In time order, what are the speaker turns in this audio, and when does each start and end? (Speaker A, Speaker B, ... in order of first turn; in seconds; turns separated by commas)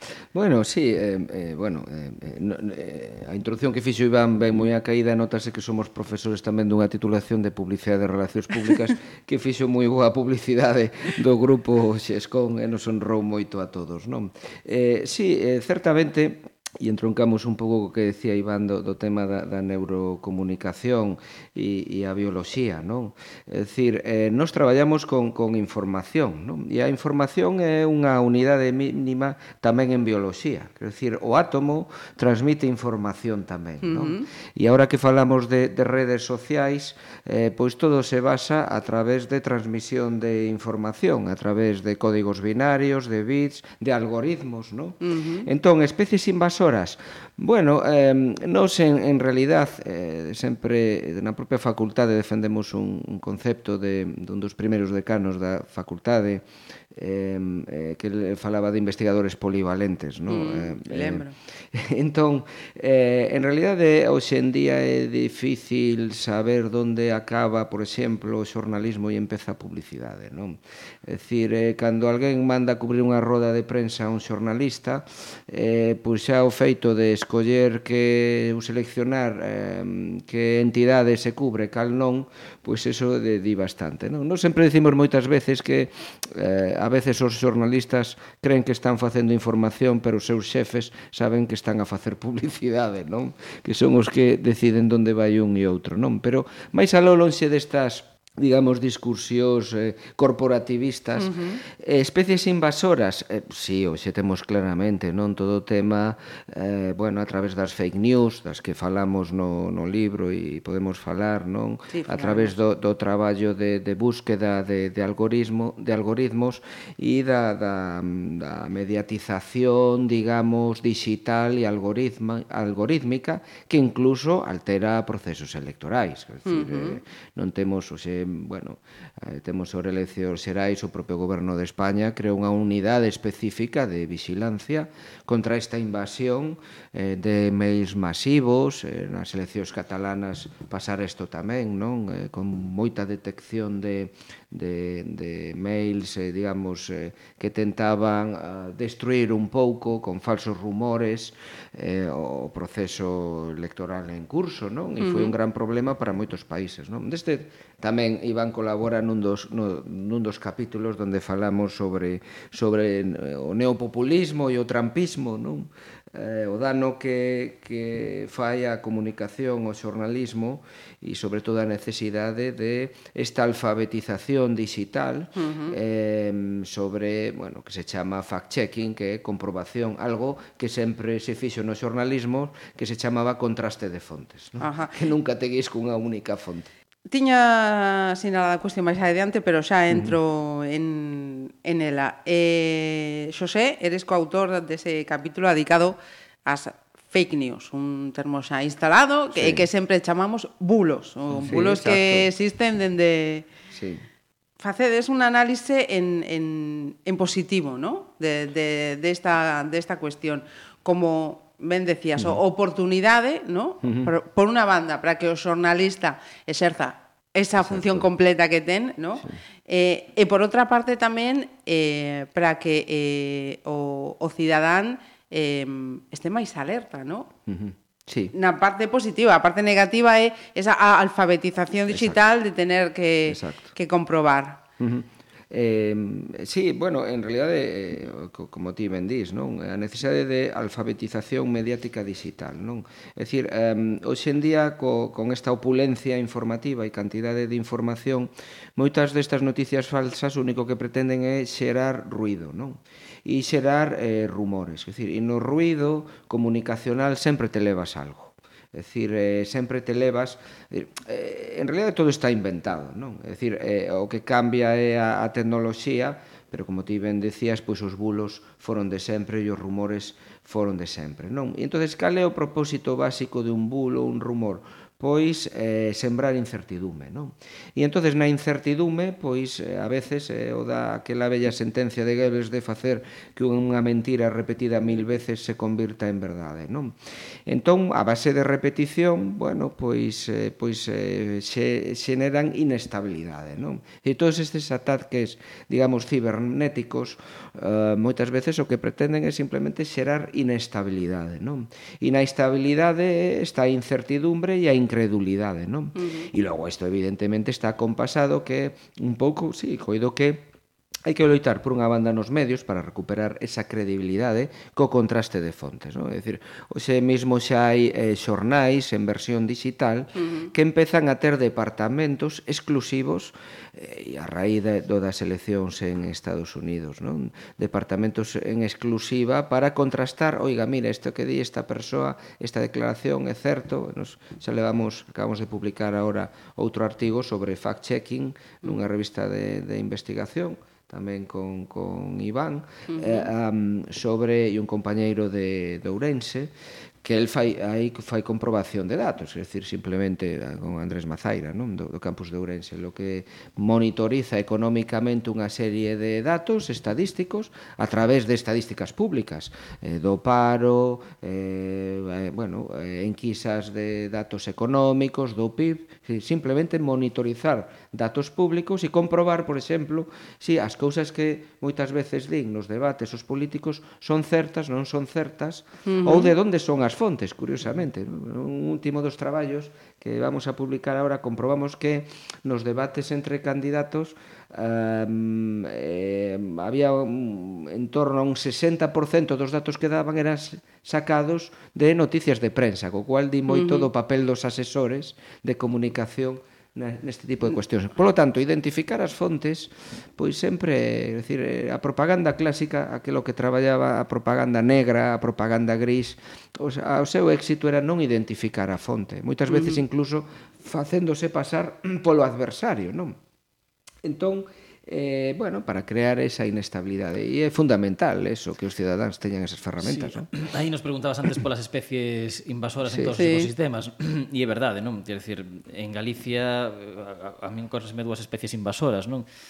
Speaker A: 0.3-186.7, Speaker B: 33.8-34.2, Speaker B: 45.0-45.5, Speaker B: 60.3-61.4, Speaker B: 101.2-101.6, Speaker B: 111.9-112.5, Speaker B: 126.5-127.0, Speaker B: 155.0-155.3, Speaker B: 175.3-175.8, Speaker B: 184.6-185.0, Speaker B: 187.1-203.5, Speaker A: 189.9-190.2, Speaker A: 199.3-199.7, Speaker A: 201.3-202.3, Speaker A: 203.7-204.0, Speaker B: 204.6-227.3, Speaker A: 213.8-214.1, Speaker A: 217.6-218.1, Speaker A: 227.5-228.3, Speaker B: 228.3-234.6, Speaker A: 231.9-232.2, Speaker A: 233.3-233.7, Speaker A: 234.8-286.9, Speaker A: 287.5-310.5, Speaker B: 305.9-306.3, Speaker A: 311.0-346.5, Speaker B: 342.9-343.3, Speaker A: 347.0-413.2, Speaker B: 375.9-376.3, Speaker B: 393.5-393.8, Speaker A: 414.0-420.3, Speaker C: 419.8-429.2, Speaker A: 422.9-423.1, Speaker B: 423.2-423.5